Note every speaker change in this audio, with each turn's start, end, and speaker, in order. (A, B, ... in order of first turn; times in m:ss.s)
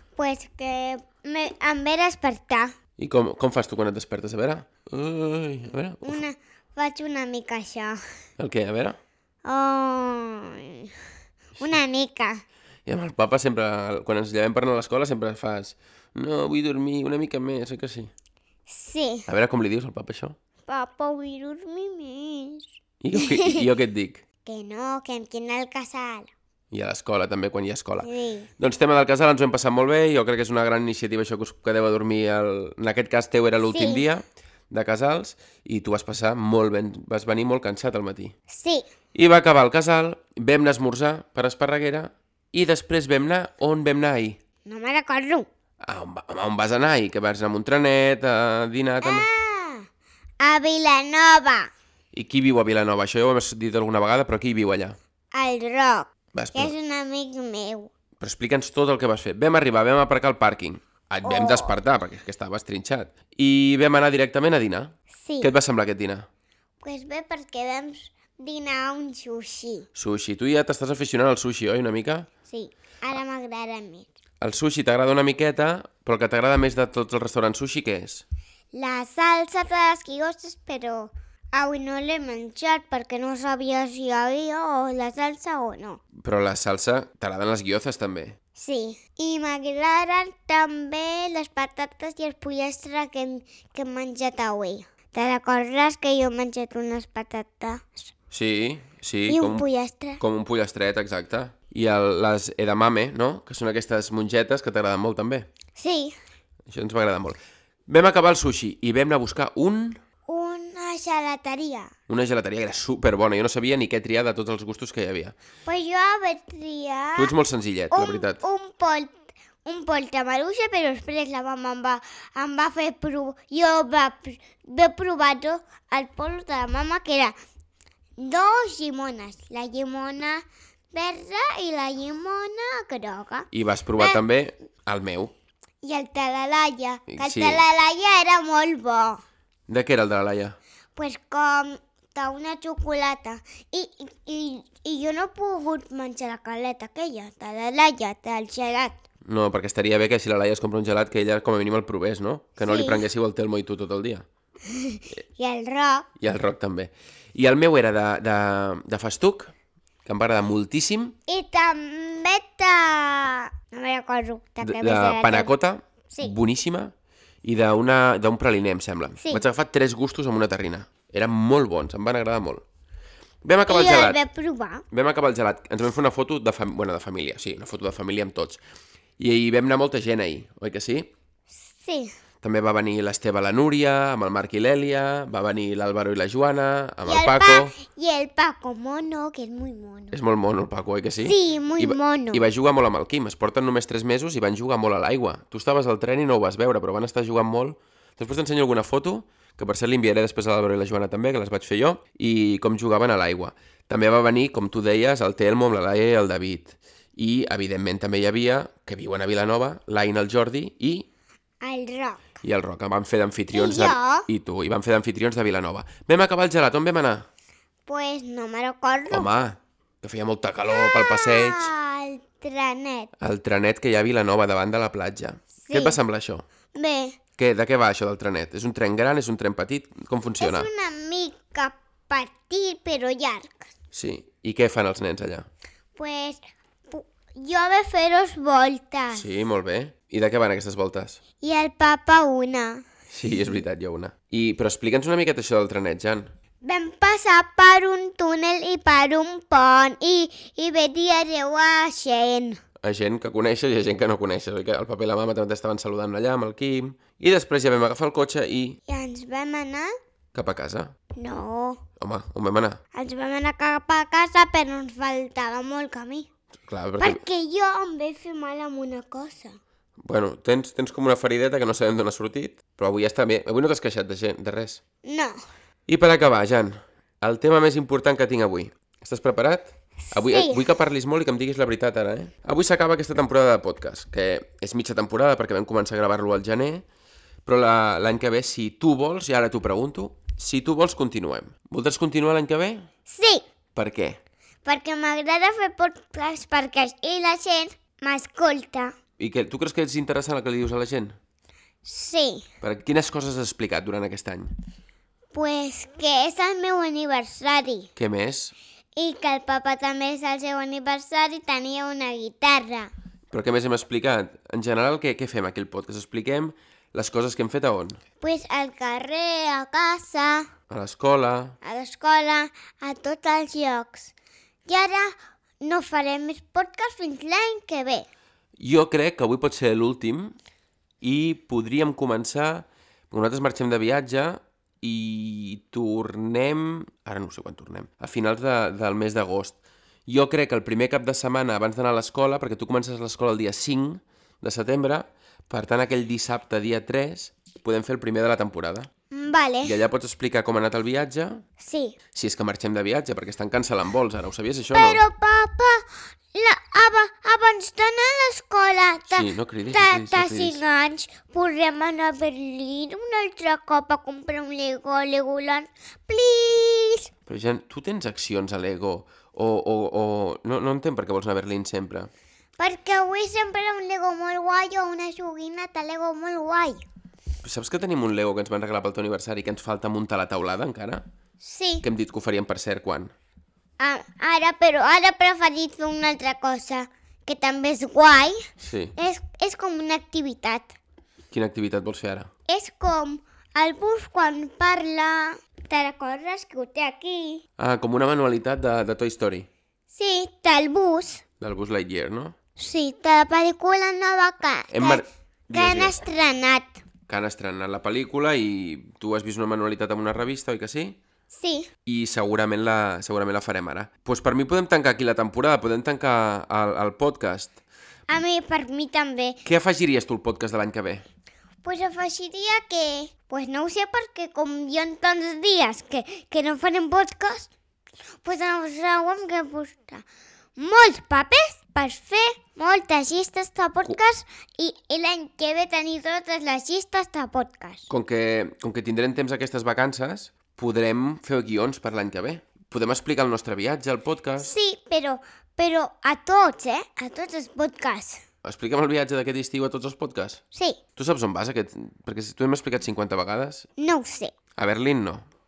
0:00.2-0:02.7 A
0:03.0-0:06.2 B
0:06.0-0:08.0 A
0:08.4-0:09.0 B
0:09.4-0:10.9 A
0:11.6-0:12.4 A
0:12.9-0:18.1 B
0:18.7-0:19.3 A
0:19.3-0:20.4 B
0:20.7-0:23.6 A
0:23.0-0:24.2 B
0:24.4-0:26.3 A
0:26.7-0:28.1 B
0:28.0-0:28.5 A
0:28.6-0:38.3 B
0:33.6-0:34.1 A
0:38.5-0:38.9 A
0:39.1-0:44.4 B
0:44.7-0:45.5 A
0:45.8-0:49.3 B
0:49.0-0:49.9 A
0:50.4-0:51.7 A
0:52.1-0:55.0 B
0:55.3-0:57.9 A
0:56.3-0:56.7 B
0:58.2-1:06.3 B
1:01.2-1:01.8 A
1:05.2-1:05.5 A
1:06.8-1:09.9 A
1:10.0-1:12.3 B
1:12.5-1:14.1 A
1:14.4-1:18.2 B
1:18.7-1:26.0 A
1:26.2-1:28.4 B
1:28.6-1:38.1 A
1:38.3-1:39.7 B
1:39.3-1:40.2 A
1:40.2-1:45.5 B
1:45.8-1:46.2 A
1:46.7-1:50.0 B
1:50.3-1:51.9 A
1:52.1-1:55.4 B
1:55.7-1:57.3 A
1:57.2-1:58.4 B
1:57.9-2:07.4 A
2:08.2-2:14.2 A
2:13.5-2:15.3 B
2:15.8-2:19.2 A
2:17.1-2:17.6 B
2:19.7-2:20.6 B
2:21.0-2:29.0 A
2:29.3-2:34.3 B
2:32.6-2:33.1 A
2:34.7-2:36.1 A
2:36.2-2:39.5 B
2:40.0-2:41.2 B
2:41.3-2:45.5 A
2:44.6-2:46.9 B
2:46.1-2:46.4 A
2:47.4-2:52.6 B
2:49.2-2:49.4 A
2:53.4-2:54.2 B
2:53.7-2:54.8 A
2:54.9-2:58.6 B
2:59.2-3:01.1 B
3:01.6-3:02.2 A
3:02.4-3:07.8 B
3:07.0-3:10.2 A
3:10.1-3:31.1 B
3:11.2-3:12.4 A
3:31.6-3:32.2 A
3:32.4-3:37.3 B
3:33.5-3:34.3 A
3:37.9-3:39.3 A
3:39.1-3:41.7 B
3:40.7-3:43.1 A
3:43.2-3:46.4 B
3:45.6-3:46.0 A
3:46.7-3:47.2 A
3:47.4-3:50.7 B
3:50.4-3:53.7 A
3:53.9-3:55.5 B
3:56.0-3:59.2 A
3:59.1-4:01.2 B
4:01.4-4:02.8 A
4:03.1-4:06.3 B
4:06.6-4:12.6 A
4:12.8-4:18.8 B
4:18.9-4:19.9 A
4:20.3-4:20.9 B
4:21.2-4:21.8 A
4:22.0-4:22.8 B
4:22.9-4:26.3 A
4:26.7-4:27.2 B
4:27.0-4:29.6 A
4:30.0-4:34.8 B
4:35.0-4:35.4 A
4:35.9-4:46.8 B
4:40.1-4:40.7 A
4:47.4-4:52.8 B
4:53.1-4:53.4 A
4:53.8-4:54.2 B
4:54.6-4:59.0 A
4:59.2-5:01.2 B
5:01.8-5:02.5 A
5:02.6-5:04.6 B
5:05.3-5:07.9 A
5:08.0-5:08.6 B
5:09.0-5:12.9 A
5:13.3-5:18.0 B
5:18.2-5:20.5 A
5:20.7-5:21.6 B
5:21.6-5:24.1 A
5:24.7-5:28.1 A
5:28.6-5:30.4 B
5:31.0-5:48.9 B
5:49.1-5:49.8 A
5:49.6-5:51.4 B
5:51.6-5:52.0 A
5:52.1-5:55.0 B
5:54.7-6:07.1 A
5:59.1-6:00.6 B
6:07.3-6:12.1 B
6:12.6-6:16.8 A
6:17.4-6:21.1 B
6:21.4-6:21.8 A
6:21.8-6:23.1 B
6:23.8-6:28.4 A
6:28.6-6:29.0 B
6:29.0-6:30.8 A
6:31.3-6:32.3 B
6:32.5-6:37.4 A
6:37.6-6:39.5 B
6:39.9-6:41.2 A
6:41.4-6:42.4 B
6:42.6-6:46.8 A
6:44.7-6:46.0 B
6:47.1-6:51.0 B
6:51.3-6:51.7 A
6:51.9-6:57.6 B
6:58.1-6:59.4 A
6:59.4-7:01.0 B
7:01.6-7:07.5 A
7:08.2-7:10.0 A
7:10.6-7:17.9 A
7:17.9-7:24.5 B
7:24.4-7:28.2 A
7:28.4-7:30.4 B
7:30.5-7:30.8 A
7:31.0-7:33.7 B
7:33.8-7:34.3 A
7:34.6-7:35.3 B